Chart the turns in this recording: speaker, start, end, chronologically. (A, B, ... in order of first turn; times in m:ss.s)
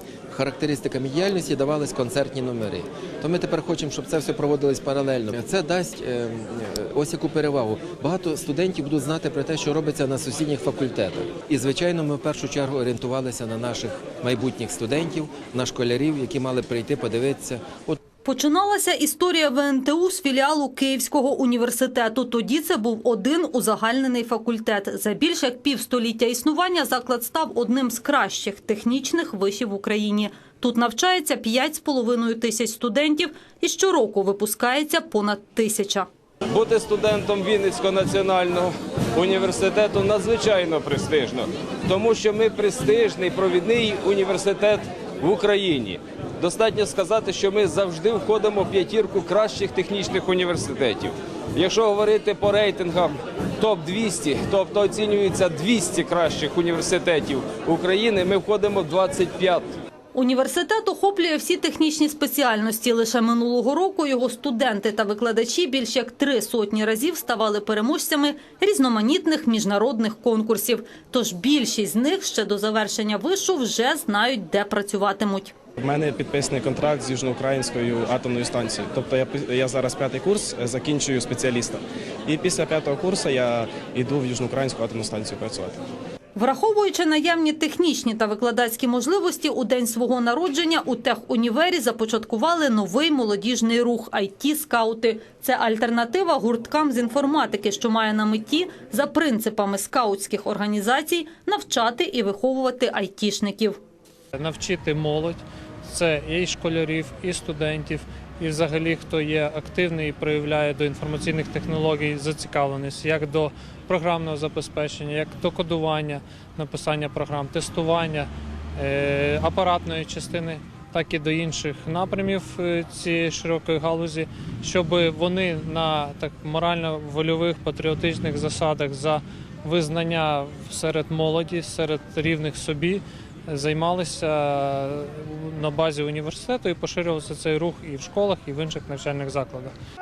0:00.3-0:17.9 A
0:18.2-0:36.1 B
0:36.5-0:59.7 C
1:00.1-1:15.5 B
1:15.8-1:25.8 D
1:26.4-1:43.8 B
1:44.4-2:19.7 E